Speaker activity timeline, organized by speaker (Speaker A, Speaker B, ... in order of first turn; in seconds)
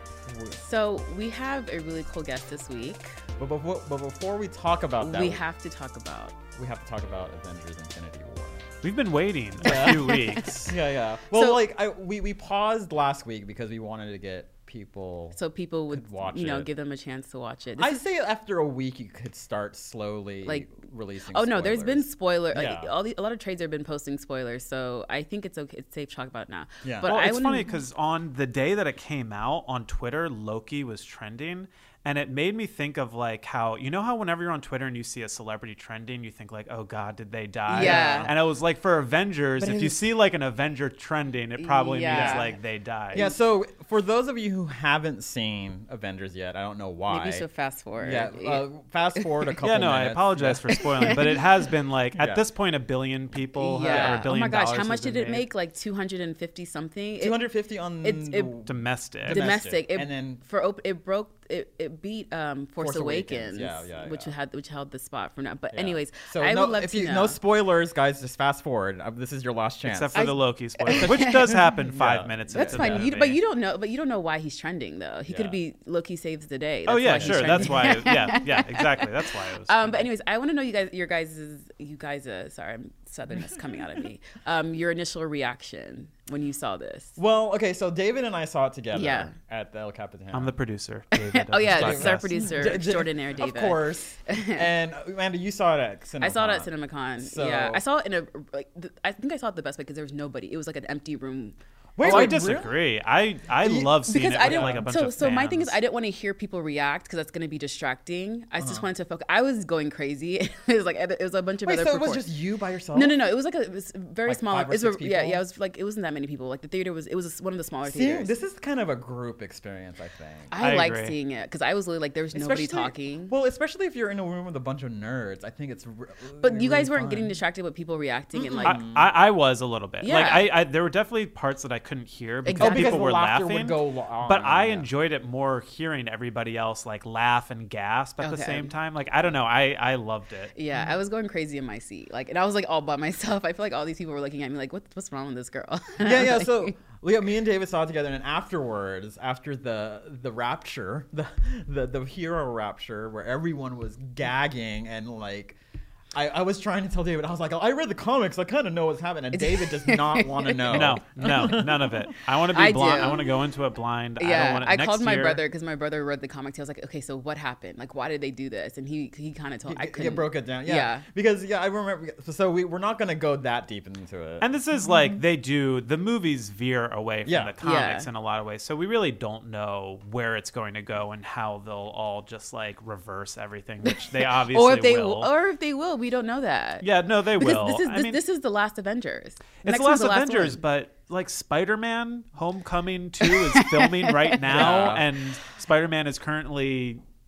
Speaker A: 0.3-0.6, 3.4-5.4, 6.6-8.7, 9.6-15.4, 15.9-16.7, 17.8-22.9, 26.8-27.1, 37.7-38.4, 42.1-42.5, 43.1-47.5, 48.0-51.4, 52.1-52.5, 53.8-54.3, 57.2-60.4, 62.8-64.3, 65.7-70.3, 70.9-71.3, 72.0-73.1, 75.3-75.6, 77.1-78.2, 87.2-90.6, 91.7-97.8, 102.0-102.8, 103.6-104.9, 108.6-108.9, 111.7-113.2, 114.3-115.4, 117.8-120.5, 122.3-127.4, 128.3-129.1, 132.6-134.9, 146.0-155.6, 156.1-162.1, 169.7-175.2, 177.2-177.6, 194.4-195.1
Speaker B: 0.6-3.2, 5.0-6.4, 9.7-10.3, 11.3-11.6, 15.3-18.0, 21.3-27.7, 37.7-38.3, 39.6-40.1, 41.6-42.6, 47.1-49.5, 53.6-57.4, 58.0-58.5, 59.3-67.4, 70.1-72.0, 72.5-87.2, 88.9-89.3, 91.3-94.6, 96.2-101.6, 104.1-112.3, 112.9-118.3, 120.5-123.4, 126.4-128.8, 130.0-130.5, 132.4-133.0, 138.2-138.7, 140.6-146.7, 159.3-161.6, 162.5-163.3, 164.2-171.1, 177.6-178.1, 183.8-190.6, 193.5-195.0
Speaker C: 8.8-10.8, 27.1-43.3, 49.6-55.5, 58.7-59.5, 69.8-73.4, 76.9-80.1, 90.3-92.8, 102.0-105.8, 120.6-121.2, 128.6-140.5, 160.7-165.4, 174.4-185.3, 186.8-188.2, 189.6-197.0